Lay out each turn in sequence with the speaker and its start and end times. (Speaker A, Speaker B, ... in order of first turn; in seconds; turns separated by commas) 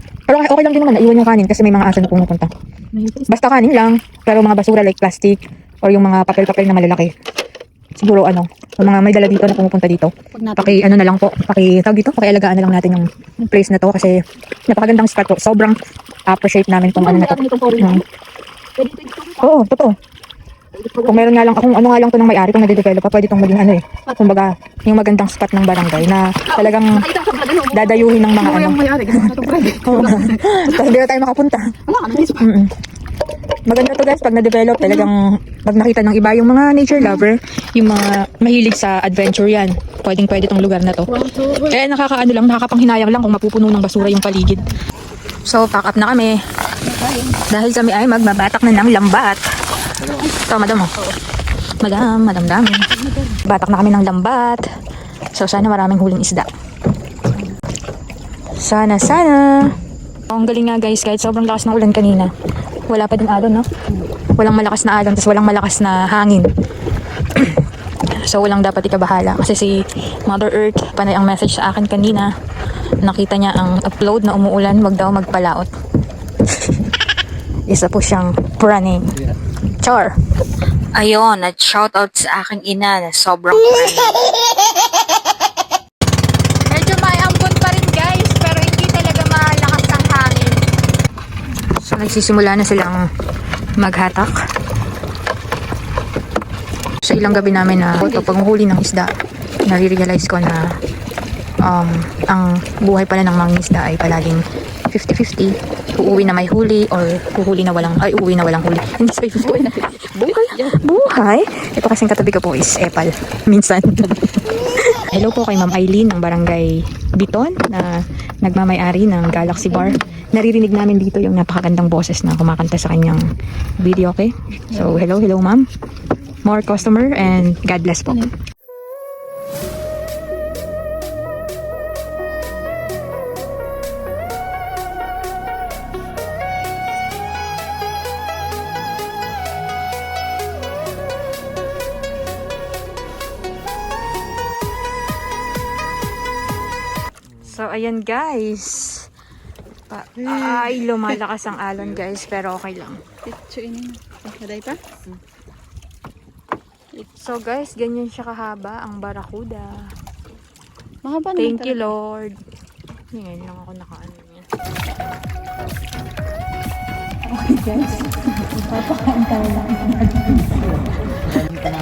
Speaker A: 0.3-2.5, Speaker B: 2.9-3.3, Speaker A: 3.3-7.1, Speaker A: 8.0-14.2, Speaker B: 10.3-10.7, Speaker A: 14.7-15.8, Speaker A: 16.3-18.0, Speaker B: 16.9-18.0, Speaker B: 18.8-19.4, Speaker A: 19.4-19.9, Speaker B: 20.8-21.1, Speaker A: 21.0-27.1, Speaker B: 26.5-30.8, Speaker A: 27.7-31.7, Speaker B: 31.9-32.4, Speaker A: 32.4-32.7, Speaker A: 33.7-44.7, Speaker B: 41.1-41.7, Speaker A: 45.5-46.4, Speaker B: 46.9-47.3, Speaker A: 47.3-49.4, Speaker A: 50.0-50.9, Speaker A: 51.8-54.6, Speaker A: 55.3-56.5, Speaker A: 58.6-59.8, Speaker A: 60.3-62.3, Speaker A: 62.9-63.6, Speaker A: 64.4-66.5, Speaker A: 68.2-69.7, Speaker A: 70.2-72.3, Speaker A: 73.0-75.7, Speaker A: 77.7-79.2, Speaker A: 79.7-80.1, Speaker C: 81.0-84.2, Speaker A: 86.7-90.6, Speaker A: 91.8-93.1, Speaker A: 93.8-94.3, Speaker A: 97.0-99.1, Speaker A: 99.7-100.7, Speaker A: 101.6-123.2, Speaker B: 109.5-110.7, Speaker A: 123.8-125.7, Speaker A: 126.4-128.3, Speaker A: 147.4-149.1, Speaker A: 149.9-153.0, Speaker B: 153.3-154.8, Speaker A: 156.9-159.7, Speaker B: 161.0-161.9, Speaker A: 161.3-162.4, Speaker A: 163.1-164.4, Speaker B: 167.5-167.9, Speaker B: 169.0-169.8